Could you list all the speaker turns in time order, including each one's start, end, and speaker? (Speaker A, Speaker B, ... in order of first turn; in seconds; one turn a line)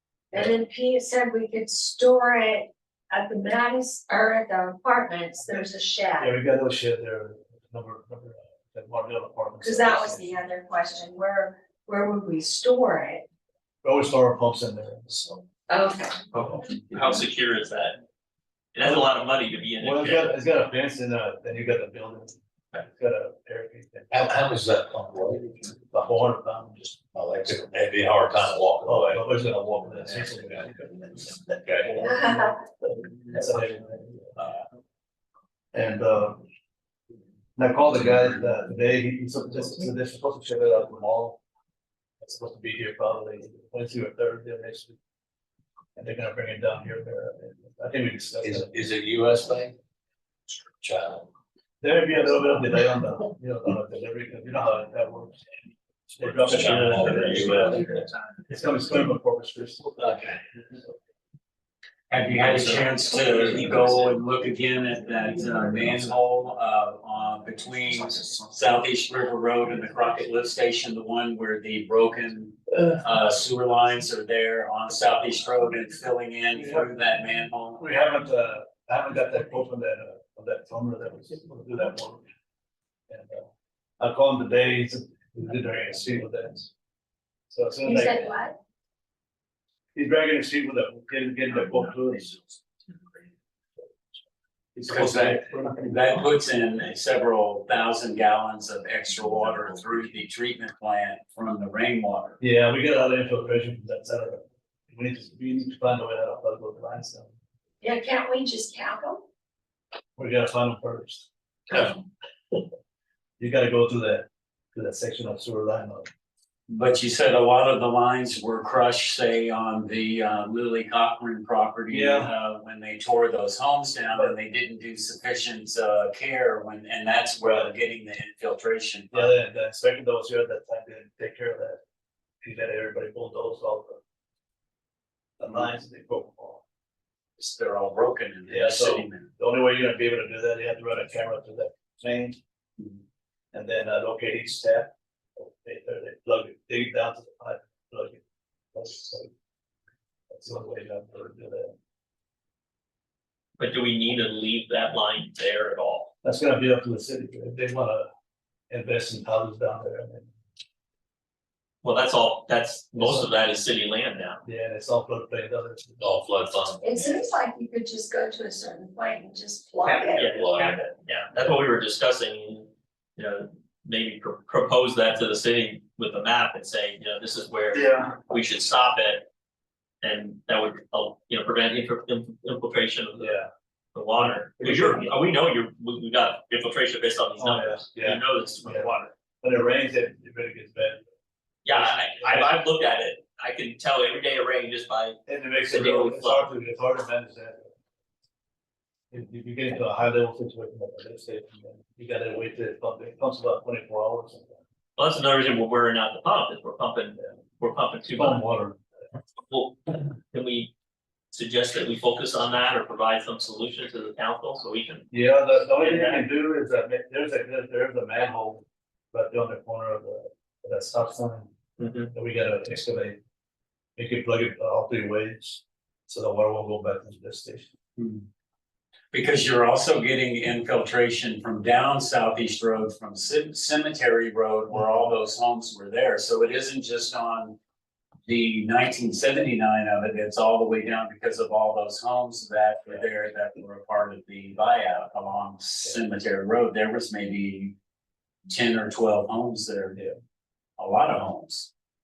Speaker A: 0.3-6.3
Speaker B: 6.2-10.3
Speaker A: 9.6-13.2
Speaker B: 13.8-15.4
Speaker A: 15.7-16.1
Speaker C: 16.3-18.0
Speaker C: 18.7-20.3
Speaker B: 18.8-19.1
Speaker B: 19.8-22.4
Speaker B: 22.9-24.4
Speaker D: 24.1-25.5
Speaker B: 25.9-26.9
Speaker D: 27.1-29.1
Speaker B: 28.8-34.3
Speaker D: 31.5-32.0
Speaker A: 32.1-32.5
Speaker B: 35.7-36.4
Speaker B: 37.6-41.4
Speaker B: 42.2-45.0
Speaker B: 46.0-48.7
Speaker D: 48.4-49.8
Speaker D: 50.8-51.3
Speaker B: 51.8-55.4
Speaker B: 56.2-60.1
Speaker D: 56.2-57.8
Speaker D: 60.0-60.3
Speaker E: 62.1-77.9
Speaker B: 76.5-76.9
Speaker B: 77.8-82.2
Speaker B: 83.1-86.7
Speaker B: 87.5-88.3
Speaker A: 87.8-88.5
Speaker B: 89.9-92.6
Speaker B: 94.7-96.0
Speaker E: 94.8-102.4
Speaker B: 102.4-107.3
Speaker A: 107.8-109.2
Speaker B: 110.2-111.3
Speaker B: 113.4-116.1
Speaker E: 116.7-129.3
Speaker B: 121.9-122.3
Speaker B: 127.4-127.7
Speaker B: 129.1-131.8
Speaker B: 132.4-134.0
Speaker B: 135.4-136.6
Speaker E: 137.4-139.3
Speaker B: 138.5-142.4
Speaker B: 143.5-148.2
Speaker B: 148.7-149.3
Speaker B: 150.3-151.7
Speaker C: 153.6-156.1
Speaker B: 156.2-158.1
Speaker B: 158.7-160.3
Speaker C: 161.8-164.4
Speaker B: 162.9-163.3
Speaker B: 164.4-166.1
Speaker D: 166.0-166.8
Speaker A: 166.8-170.3
Speaker C: 169.8-179.3
Speaker D: 170.3-170.8
Speaker B: 177.7-178.1
Speaker C: 180.0-183.3
Speaker B: 183.2-183.5
Speaker C: 183.9-189.1
Speaker B: 184.2-185.2
Speaker B: 187.4-188.9
Speaker B: 189.4-191.0
Speaker C: 191.6-196.5
Speaker B: 191.7-192.5
Speaker B: 195.3-197.7
Speaker B: 199.1-204.6
Speaker C: 205.0-208.4
Speaker B: 208.1-208.8
Speaker C: 209.5-210.7
Speaker C: 211.3-215.1
Speaker B: 215.1-221.5
Speaker C: 215.8-216.2
Speaker C: 221.8-222.1
Speaker B: 222.1-223.2
Speaker B: 224.0-227.7
Speaker E: 228.0-228.2
Speaker E: 229.1-237.6
Speaker E: 238.2-247.7
Speaker E: 248.5-250.0
Speaker E: 250.8-251.7